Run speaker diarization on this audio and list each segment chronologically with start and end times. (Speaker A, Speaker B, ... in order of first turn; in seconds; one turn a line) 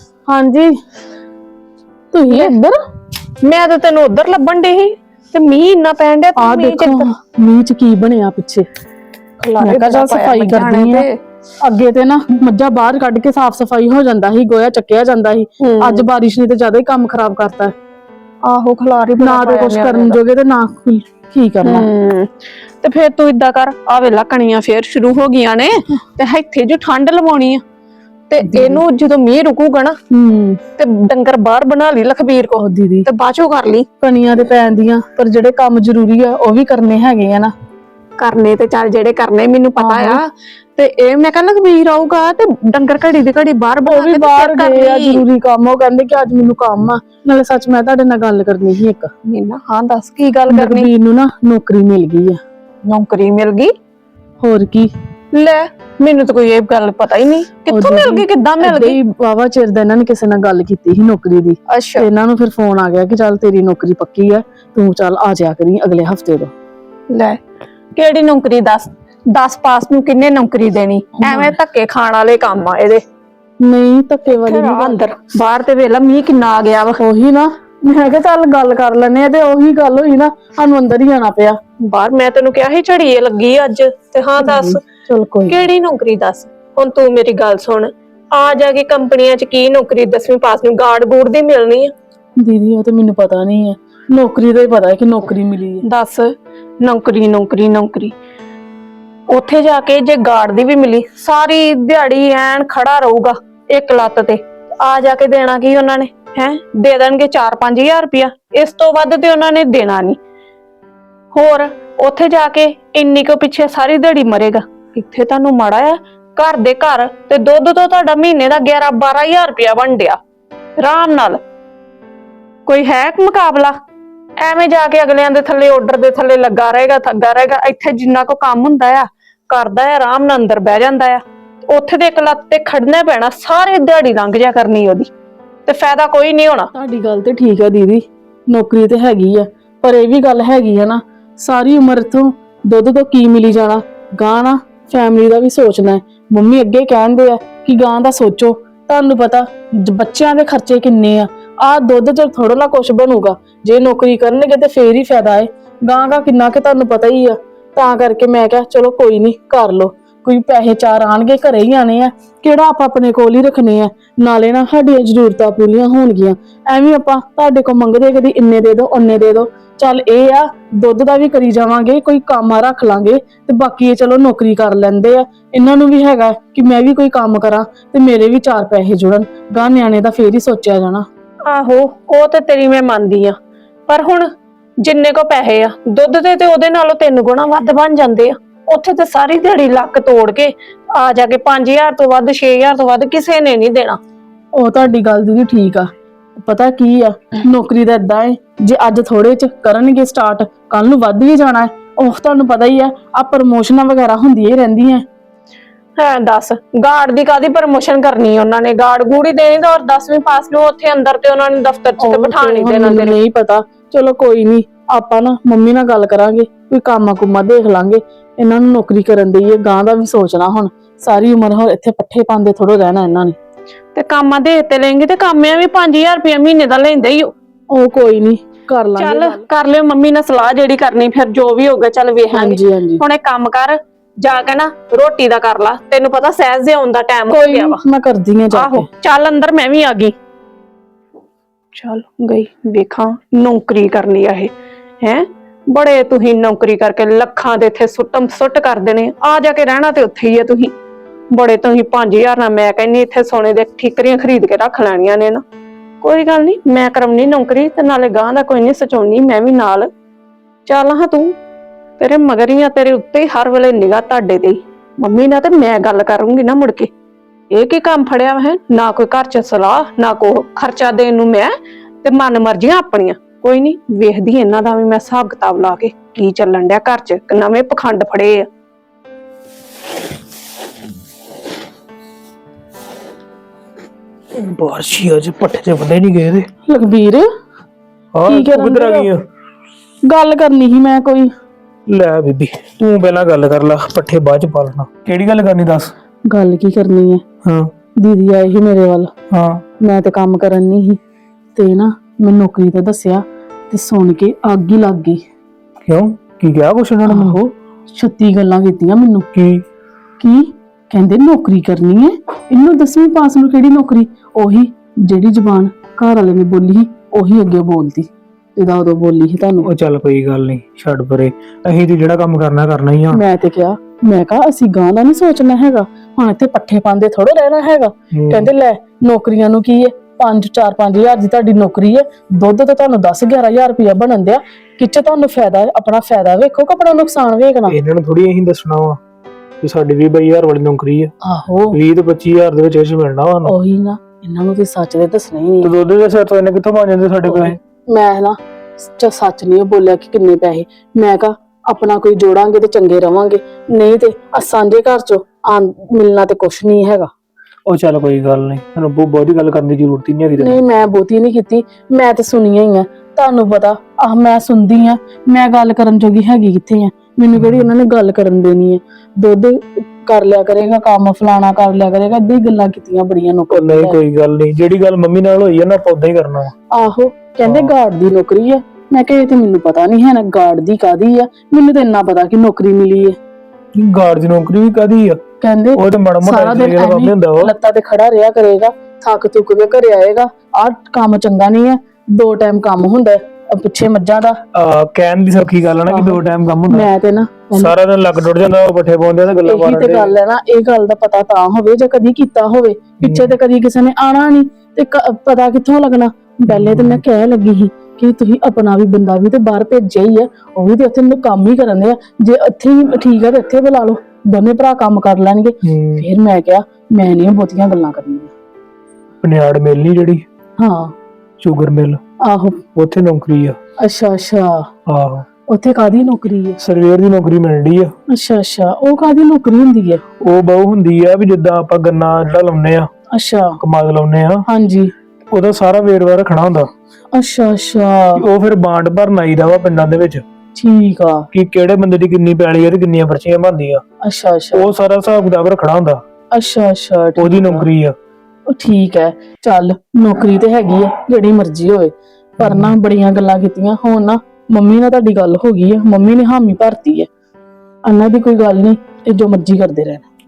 Speaker A: 0.3-0.7
Speaker A: 2.1-2.8
Speaker B: 3.4-7.1
Speaker A: 6.3-8.7
Speaker B: 9.4-11.2
Speaker A: 9.6-11.0
Speaker A: 11.6-17.7
Speaker B: 15.6-16.0
Speaker B: 18.4-20.2
Speaker A: 19.2-21.9
Speaker B: 21.6-22.3
Speaker B: 22.8-27.6
Speaker B: 28.3-30.0
Speaker A: 28.4-28.8
Speaker A: 30.1-30.6
Speaker B: 30.8-33.9
Speaker A: 32.6-33.0
Speaker A: 34.0-37.5
Speaker B: 38.2-45.2
Speaker A: 39.8-40.2
Speaker A: 43.9-49.1
Speaker B: 49.3-50.9
Speaker A: 50.5-52.4
Speaker B: 52.8-53.7
Speaker A: 54.4-54.9
Speaker B: 55.3-59.0
Speaker A: 57.7-66.5
Speaker B: 61.7-62.1
Speaker B: 67.1-67.4
Speaker B: 68.0-73.0
Speaker A: 71.2-71.5
Speaker A: 73.6-75.0
Speaker B: 74.3-77.0
Speaker A: 77.0-81.6
Speaker B: 81.8-84.8
Speaker A: 84.4-85.7
Speaker B: 85.5-91.9
Speaker A: 92.4-95.8
Speaker B: 95.8-98.1
Speaker B: 99.3-110.2
Speaker B: 111.3-120.2
Speaker B: 120.8-121.4
Speaker B: 122.7-123.8
Speaker B: 124.4-135.1
Speaker B: 135.7-136.7
Speaker A: 136.7-181.1
Speaker B: 181.4-183.3
Speaker B: 183.9-194.0
Speaker A: 194.5-195.9
Speaker A: 196.4-205.0
Speaker B: 206.0-213.2
Speaker A: 212.0-223.3
Speaker B: 223.9-227.3
Speaker A: 227.7-229.4
Speaker B: 229.0-237.8
Speaker A: 232.3-233.0
Speaker A: 237.3-238.9
Speaker B: 238.5-240.1
Speaker B: 241.7-250.7
Speaker B: 251.3-255.4
Speaker B: 256.0-259.9
Speaker B: 260.6-261.4
Speaker B: 262.0-266.9
Speaker B: 267.5-278.5
Speaker C: 284.3-286.5
Speaker A: 286.7-287.3
Speaker C: 288.1-289.2
Speaker A: 288.3-289.1
Speaker A: 290.0-291.3
Speaker C: 291.9-295.9
Speaker A: 296.3-297.2
Speaker C: 297.4-297.7
Speaker A: 298.0-299.1
Speaker C: 299.3-299.6
Speaker A: 299.8-301.0
Speaker A: 301.5-305.2
Speaker C: 305.9-307.4
Speaker A: 307.1-309.3
Speaker C: 309.3-309.6
Speaker A: 310.2-319.7
Speaker C: 319.6-323.2
Speaker A: 323.1-337.8
Speaker C: 328.1-328.5
Speaker C: 337.7-339.0
Speaker C: 339.6-341.1
Speaker A: 341.2-341.8
Speaker C: 341.7-343.6
Speaker A: 343.4-345.7
Speaker C: 345.6-347.6
Speaker A: 347.3-357.1
Speaker C: 357.7-360.6
Speaker A: 360.4-374.0
Speaker C: 367.4-367.7
Speaker C: 373.5-376.5
Speaker A: 376.7-383.2
Speaker C: 377.4-377.7
Speaker C: 383.7-385.2
Speaker A: 385.4-394.4
Speaker C: 385.7-387.5
Speaker C: 394.5-396.9
Speaker A: 395.9-397.7
Speaker C: 397.6-400.1
Speaker A: 399.4-418.3
Speaker C: 403.0-403.3
Speaker C: 406.5-407.0
Speaker C: 415.6-416.1
Speaker C: 419.2-420.2
Speaker A: 420.6-420.9
Speaker C: 421.4-422.0
Speaker A: 422.2-422.6
Speaker C: 422.7-423.6
Speaker A: 423.8-424.7
Speaker C: 424.9-425.2
Speaker A: 425.5-426.6
Speaker C: 426.6-427.9
Speaker A: 428.1-430.0
Speaker C: 430.2-432.9
Speaker A: 433.1-433.6
Speaker C: 433.6-434.4
Speaker A: 434.5-434.9
Speaker C: 435.3-436.7
Speaker A: 437.1-438.2
Speaker C: 438.2-440.2
Speaker A: 440.5-441.3
Speaker C: 441.3-443.8
Speaker A: 444.0-444.7
Speaker C: 444.5-446.0
Speaker A: 446.3-447.7
Speaker C: 447.2-447.9
Speaker A: 448.5-457.1
Speaker C: 452.4-452.7
Speaker A: 457.9-460.1